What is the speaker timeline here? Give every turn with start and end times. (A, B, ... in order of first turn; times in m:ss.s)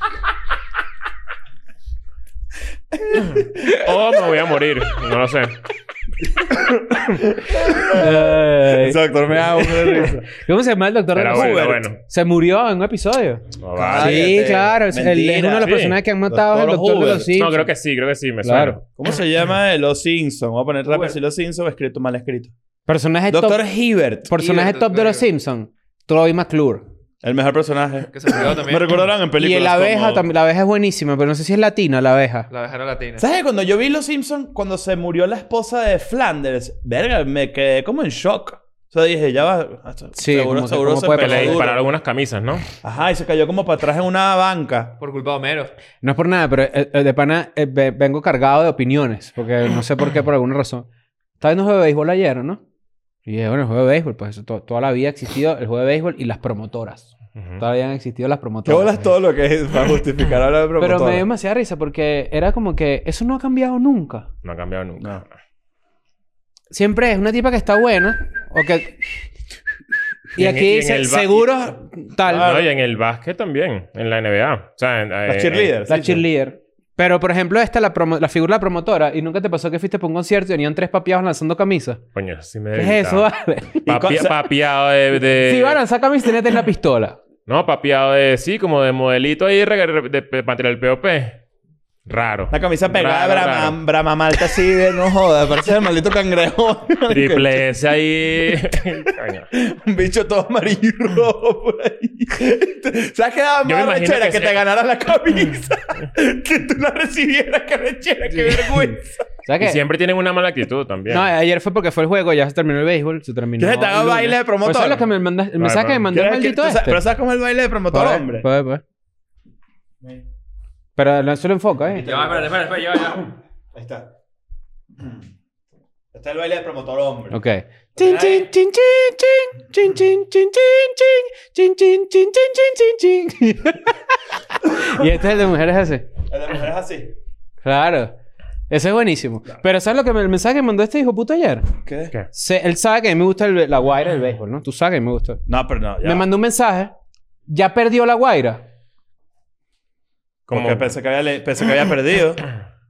0:03.0-0:03.8 A
0:03.6-0:05.6 B
0:06.4-0:10.3 A
0:07.9-0:09.0 C
0:09.7-0:17.7 C
0:11.2-0:12.0 B
0:11.3-0:11.9 A
0:13.6-0:14.4 B
0:13.7-0:15.7 A
0:15.6-0:16.0 B
0:16.3-0:17.3 A
0:17.3-0:18.8 B
0:18.4-0:18.8 C
0:19.0-0:22.5 A
0:20.9-0:21.2 D
0:22.9-0:23.6 C
0:23.3-0:24.3 A
0:24.3-0:26.8 C
0:24.3-0:25.2 D
0:27.2-0:30.2 A
0:28.1-0:29.0 D
0:29.4-0:32.5 C
0:32.5-0:33.3 D
0:33.2-0:41.8 A
0:40.2-0:41.7 C
0:41.1-0:42.6 B
0:42.8-0:44.9 A
0:45.0-0:45.7 D
0:46.0-0:50.9 C
0:51.4-0:52.6 C
0:53.2-0:59.0 C
0:57.4-0:57.6 B
0:58.6-1:01.2 A
1:00.8-1:04.3 C
1:04.4-1:05.3 B
1:06.7-1:09.3 C
1:10.3-1:12.5 C
1:10.4-1:11.7 B
1:12.3-1:12.7 A
1:12.3-1:15.7 B
1:15.3-1:16.2 A
1:15.8-1:22.0 C
1:22.1-1:23.2 B
1:22.7-1:23.8 C
1:23.8-1:24.5 A
1:23.8-1:25.8 B
1:25.4-1:27.2 C
1:27.5-1:31.4 B
1:32.0-1:33.8 B
1:32.5-1:37.6 A
1:37.1-1:39.5 B
1:38.5-1:38.8 A
1:39.5-1:49.1 A
1:43.6-1:44.6 B
1:48.5-1:48.9 C
1:49.4-1:49.8 C
1:49.6-1:51.3 B
1:51.1-1:57.0 C
1:53.6-1:55.0 A
1:55.6-1:56.0 B
1:56.1-1:58.5 A
1:57.9-1:58.8 C
2:01.0-2:02.1 C
2:01.9-2:03.1 A
2:02.0-2:03.3 D
2:03.7-2:04.1 A
2:05.0-2:05.2 A
2:06.1-2:07.4 A
2:07.3-2:16.1 C
2:08.0-2:08.5 A
2:16.3-2:17.1 A
2:17.6-2:18.1 C
2:18.7-2:21.7 C
2:21.8-2:22.1 A
2:22.3-2:25.4 C
2:25.5-2:26.2 A
2:26.0-2:26.9 C
2:27.5-2:28.6 C
2:30.5-2:30.9 B
2:30.5-2:32.5 A